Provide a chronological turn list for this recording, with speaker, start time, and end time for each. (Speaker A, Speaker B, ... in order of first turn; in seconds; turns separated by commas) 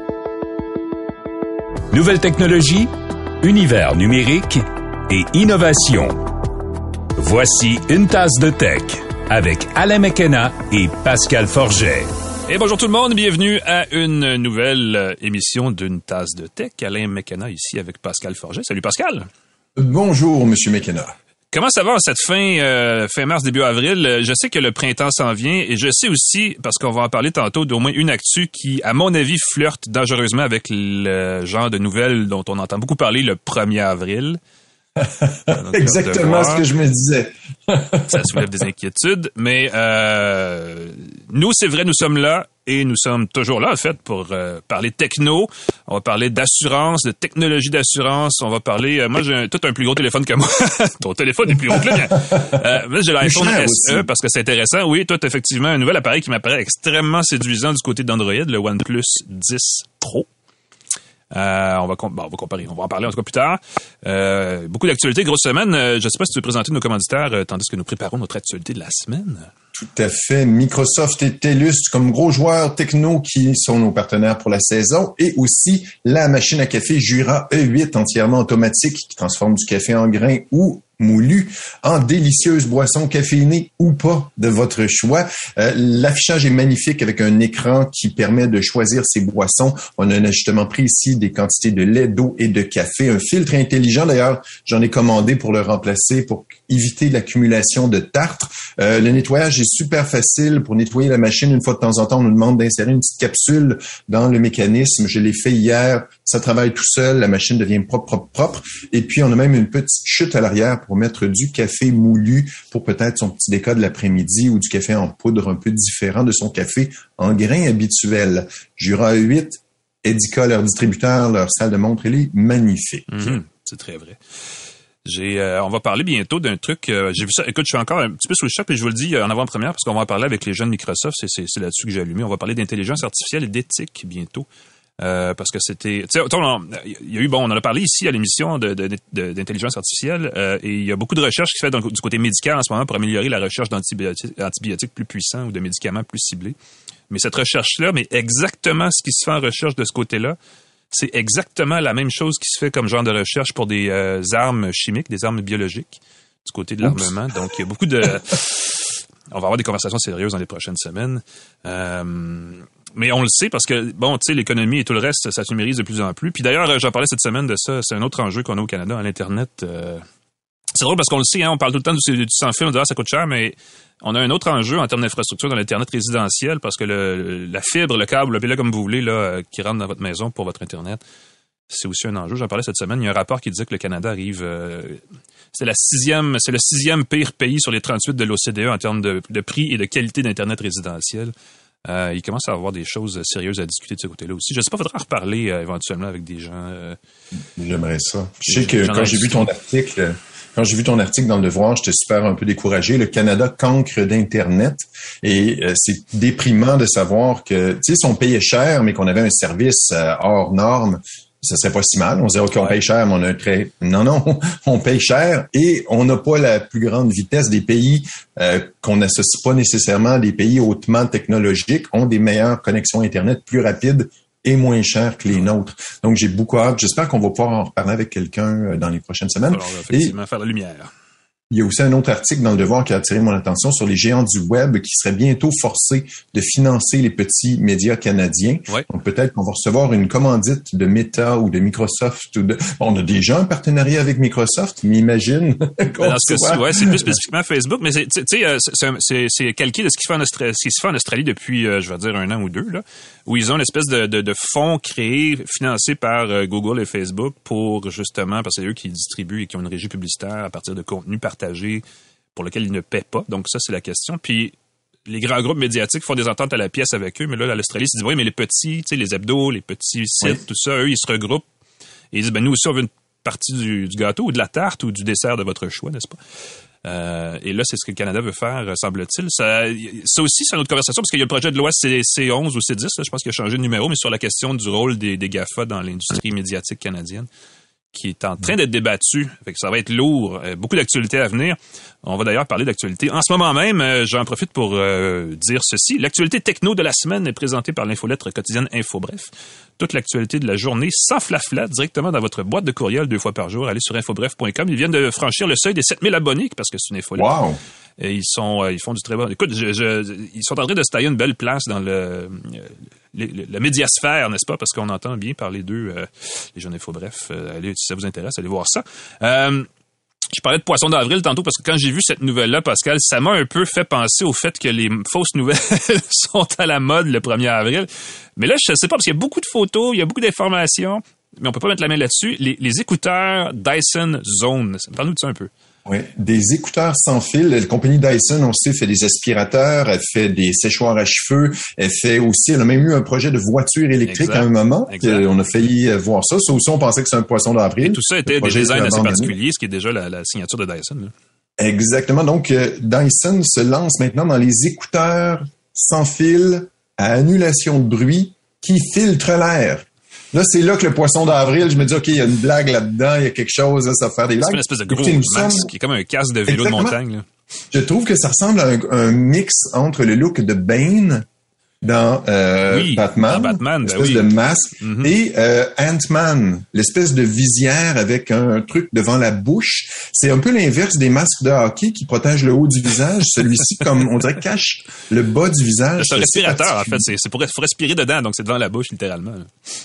Speaker A: 1.9-6.2, Speaker A: 7.2-12.1, Speaker B: 12.5-19.3, Speaker C: 19.8-21.1, Speaker B: 21.5-34.4, Speaker C: 35.0-38.4, Speaker B: 35.5-36.6, Speaker B: 38.1-60.3, Speaker C: 51.7-52.5, Speaker C: 53.2-54.0, Speaker B: 61.3-69.5, Speaker C: 69.8-123.4, Speaker B: 123.1-124.2, Speaker B: 125.0-134.4, Speaker B: 135.0-146.6, Speaker B: 147.1-150.4, Speaker B: 150.9-170.0, Speaker C: 156.8-157.1, Speaker B: 170.8-181.0, Speaker B: 181.7-185.0, Speaker B: 185.5-191.3, Speaker B: 191.8-197.0, Speaker C: 197.6-230.1, Speaker B: 198.4-199.5, Speaker B: 229.5-230.9, Speaker C: 231.5-247.1, Speaker B: 246.0-261.8, Speaker B: 262.4-264.6, Speaker B: 265.1-271.4, Speaker B: 272.1-276.2, Speaker B: 276.8-287.3, Speaker B: 287.9-307.3, Speaker C: 307.2-307.6, Speaker B: 308.0-319.7, Speaker B: 320.3-335.5, Speaker C: 335.9-349.4, Speaker B: 344.1-345.2, Speaker B: 347.8-351.1, Speaker C: 351.6-365.7, Speaker B: 364.4-367.2, Speaker C: 366.5-367.0, Speaker C: 367.7-371.2, Speaker C: 371.8-387.0, Speaker B: 372.7-374.3, Speaker B: 374.8-375.1, Speaker B: 386.0-389.5